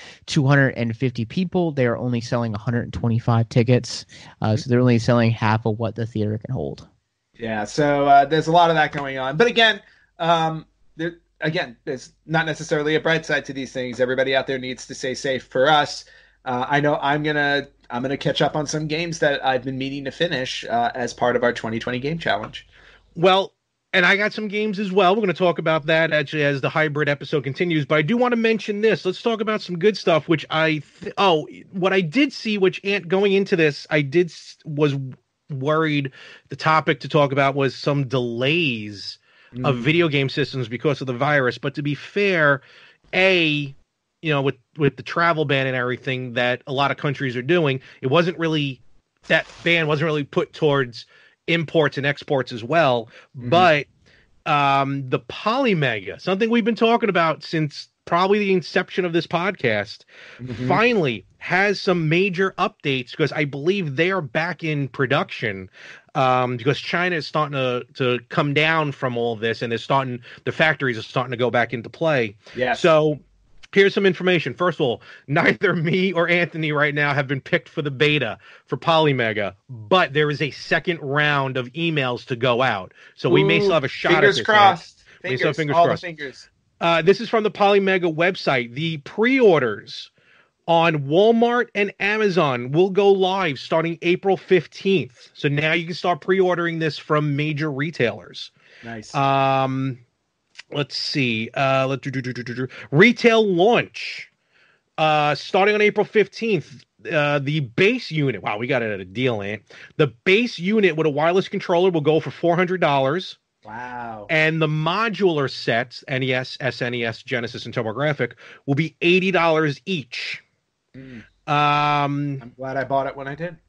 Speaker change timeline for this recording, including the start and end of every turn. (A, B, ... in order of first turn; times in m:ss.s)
0:00.3-0:06.9 A
0:07.4-0:22.6 B
0:23.2-0:42.6 C
0:39.5-0:39.9 B
0:43.1-0:53.9 C
0:53.4-0:53.7 B
0:54.5-1:13.2 C
1:00.4-1:00.8 B
1:12.6-1:12.9 B
1:13.7-1:26.0 C
1:23.3-1:26.5 B
1:26.8-1:30.1 C
1:30.7-1:38.5 C
1:38.8-1:39.2 B
1:39.1-1:40.0 C
1:40.7-1:44.3 C
1:45.0-1:53.4 C
1:53.6-1:54.3 B
1:54.3-2:00.4 C
2:01.0-2:01.2 B
2:01.5-2:02.4 C
2:02.4-2:03.6 B